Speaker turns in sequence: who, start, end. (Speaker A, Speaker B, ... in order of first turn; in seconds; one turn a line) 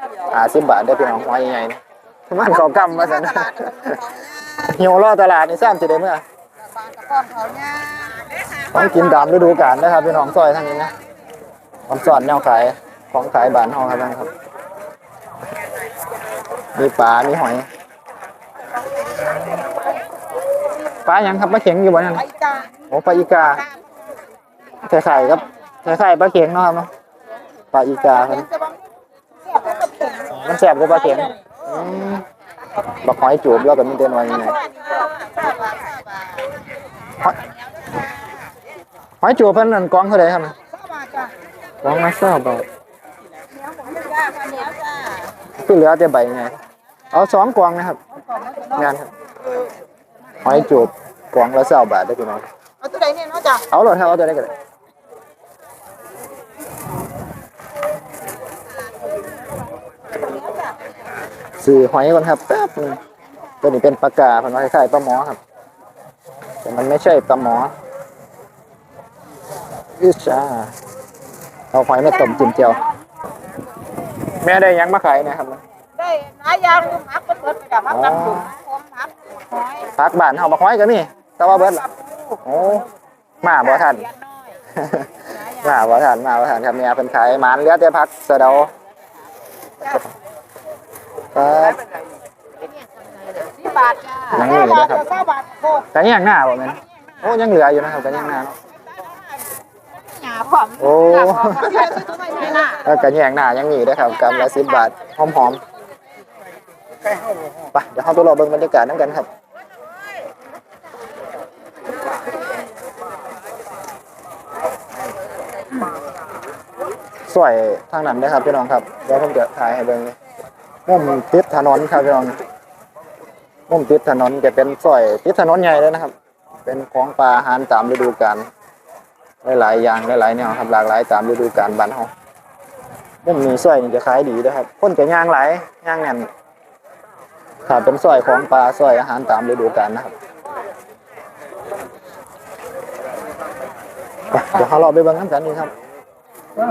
Speaker A: 0.2-6.2
Speaker B: 6.9-8.3
Speaker A: 8.7-10.9
Speaker A: 11.9-14.3
Speaker A: 16.7-17.6
Speaker A: 21.0-22.3
Speaker B: 22.3-22.7
Speaker A: 22.9-23.6
Speaker A: 24.8-26.9
Speaker A: 27.7-28.5
Speaker B: 28.5-28.8
Speaker B: 29.4-30.3
Speaker A: 30.2-32.2
Speaker A: 33.0-34.6
Speaker B: 34.5-36.4
Speaker B: 37.8-38.5
Speaker A: 39.2-40.5
Speaker B: 40.7-41.3
Speaker A: 41.8-42.6
Speaker B: 43.8-45.3
Speaker A: 45.6-46.5
Speaker A: 47.1-48.0
Speaker B: 48.2-48.8
Speaker A: 48.7-49.1
Speaker A: 50.4-52.4
Speaker B: 52.8-53.6
Speaker A: 53.6-54.5
Speaker B: 60.2-60.7
Speaker A: 61.6-63.0
Speaker A: 63.6-65.4
Speaker A: 66.6-67.7
Speaker A: 70.0-70.7
Speaker A: 71.7-72.8
Speaker A: 74.4-75.6
Speaker B: 76.0-79.9
Speaker A: 77.9-78.5
Speaker A: 79.9-81.9
Speaker A: 82.4-82.9
Speaker A: 83.4-84.1
Speaker B: 84.1-84.5
Speaker A: 84.8-88.7
Speaker A: 91.3-91.8
Speaker B: 93.1-95.8
Speaker A: 94.3-95.2
Speaker A: 95.8-98.5
Speaker B: 100.1-102.8
Speaker A: 100.8-102.0
Speaker A: 102.7-105.6
Speaker A: 107.7-109.3
Speaker A: 117.3-120.2
Speaker A: 120.8-122.4
Speaker A: 123.7-126.1
Speaker A: 126.6-128.4
Speaker A: 129.4-132.1
Speaker A: 133.2-136.3
Speaker A: 137.7-140.1
Speaker A: 144.3-145.7